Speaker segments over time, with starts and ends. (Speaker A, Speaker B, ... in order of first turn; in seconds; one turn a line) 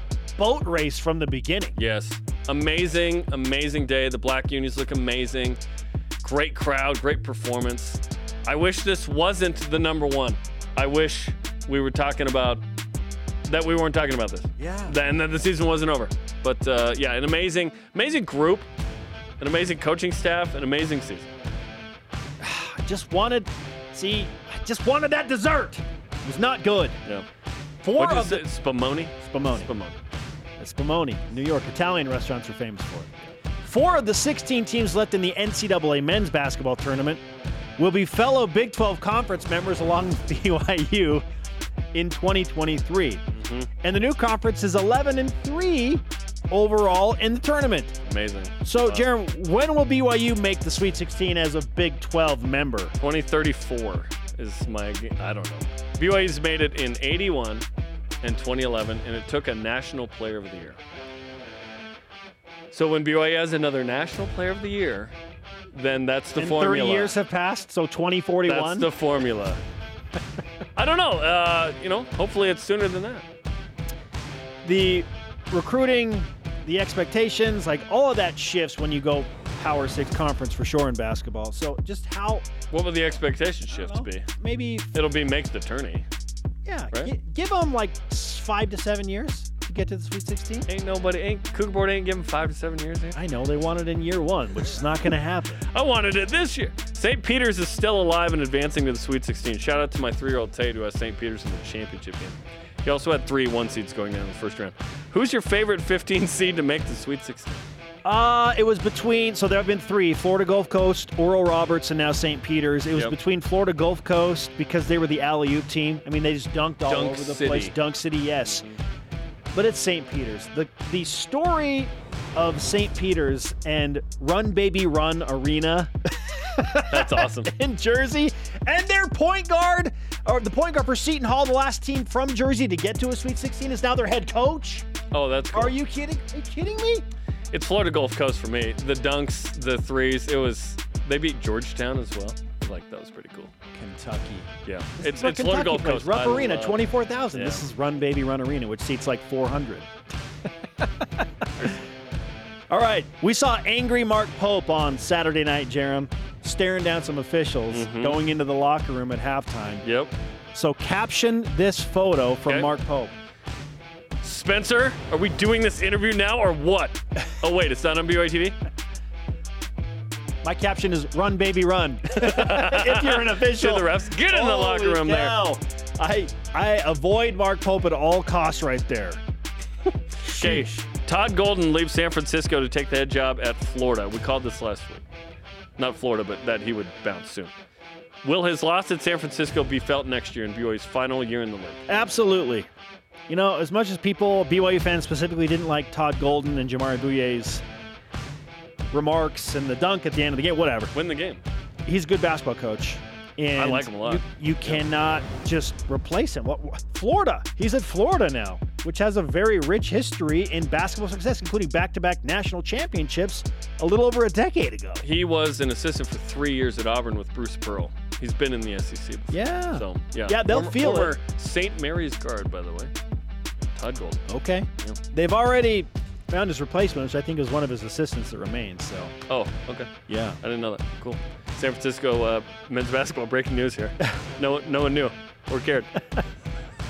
Speaker A: 0.4-1.8
Speaker B: 1.8-5.6
Speaker B: 6.2-12.7
Speaker B: 13.5-18.7
Speaker A: 14.6-15.0
Speaker B: 19.4-21.3
Speaker A: 22.4-27.0
Speaker A: 27.8-28.5
Speaker B: 27.9-30.0
Speaker A: 29.2-29.7
Speaker A: 30.6-37.2
Speaker A: 37.8-41.2
Speaker A: 41.9-43.2
Speaker B: 43.3-43.7
Speaker A: 43.8-48.0
Speaker B: 48.0-49.1
Speaker A: 48.6-52.9
Speaker B: 53.0-57.6
Speaker B: 58.2-60.8
Speaker B: 62.7-65.1
Speaker B: 65.7-67.2
Speaker A: 66.4-68.9
Speaker B: 68.5-69.6
Speaker B: 70.8-73.3
Speaker A: 74.6-82.5
Speaker B: 82.7-84.3
Speaker A: 83.7-84.9
Speaker B: 84.9-86.1
Speaker A: 86.7-90.7
Speaker B: 90.7-93.2
Speaker A: 93.2-95.6
Speaker B: 95.7-107.6
Speaker A: 108.0-118.7
Speaker B: 116.9-117.8
Speaker B: 118.5-118.8
Speaker A: 119.5-134.9
Speaker B: 126.9-127.5
Speaker B: 135.1-135.8
Speaker A: 135.5-137.1
Speaker B: 137.5-143.5
Speaker A: 143.7-149.9
Speaker B: 144.7-147.6
Speaker A: 150.8-151.8
Speaker A: 152.7-159.8
Speaker B: 157.7-158.2
Speaker B: 159.8-160.1
Speaker A: 160.5-163.1
Speaker B: 164.2-168.6
Speaker A: 170.4-179.2
Speaker B: 172.1-175.4
Speaker B: 180.2-185.0
Speaker A: 180.2-180.8
Speaker B: 185.8-187.5
Speaker B: 188.2-191.9
Speaker A: 191.9-192.7
Speaker A: 193.3-197.6
Speaker A: 198.9-200.9
Speaker B: 200.9-201.4
Speaker A: 201.8-215.0
Speaker B: 203.6-204.8
Speaker B: 215.0-222.9
Speaker A: 219.3-221.2
Speaker B: 223.7-224.2
Speaker A: 224.3-229.1
Speaker B: 229.3-236.0
Speaker A: 230.1-230.4